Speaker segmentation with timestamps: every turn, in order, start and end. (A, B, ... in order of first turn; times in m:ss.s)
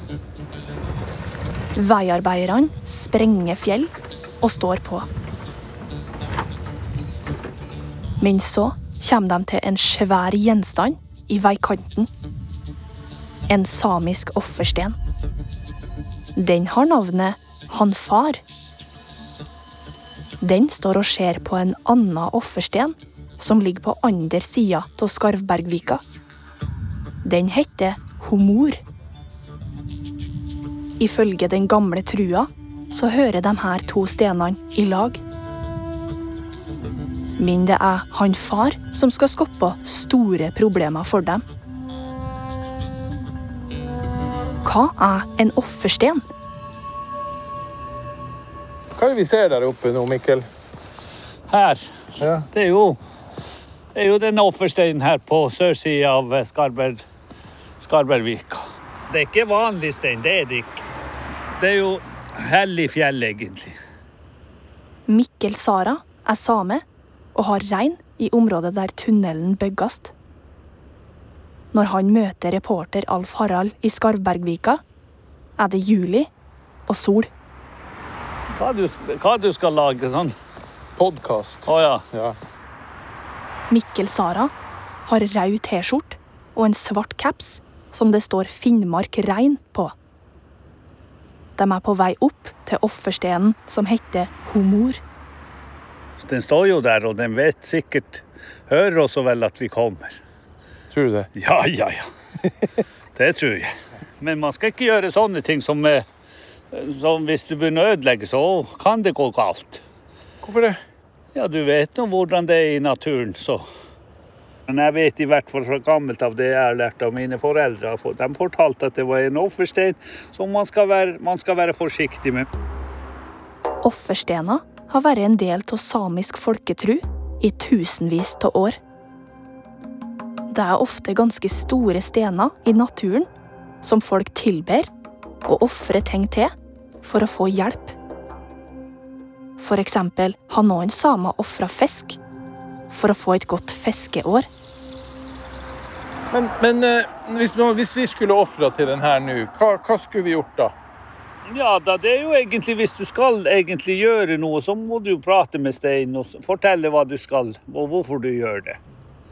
0:01.7-0:05.1 A
0:08.2-0:12.1 A
0:13.5-0:15.0 A
0:16.4-0:18.4 A
0:20.4-0:26.0 A
0:27.2-0:28.8 A
0:31.0-0:35.2 A
0:37.4-0:41.4 A
0:44.6-0:46.2 A
0:48.9-0:50.4 B
0:51.5-0:53.0 C
0:52.2-0:52.4 B
0:53.9-0:57.0 C
0:57.8-1:00.8 C
1:01.6-1:03.7 C
1:05.1-1:06.8 A
1:07.3-1:10.1 A
1:11.7-1:14.8 A
1:15.6-1:16.3 A
1:16.9-1:17.3 A
1:18.6-1:20.3 C
1:21.0-1:22.4 B
1:21.7-1:22.0 C
1:23.7-1:24.5 A
1:25.0-1:29.9 A
1:31.6-1:35.0 A
1:36.2-1:40.2 C
1:40.9-1:41.3 B
1:41.4-1:42.1 C
1:43.2-1:46.0 C
1:46.7-1:49.8 C
1:50.4-1:50.8 B
1:51.3-1:53.6 C
1:54.7-2:02.5 C
2:03.8-2:08.8 A
2:10.5-2:13.3 A
2:13.8-2:14.9 A
2:15.4-2:18.0 A
2:19.6-2:22.2 A
2:22.9-2:24.5 A
2:26.3-2:30.7 B
2:31.5-2:38.8 C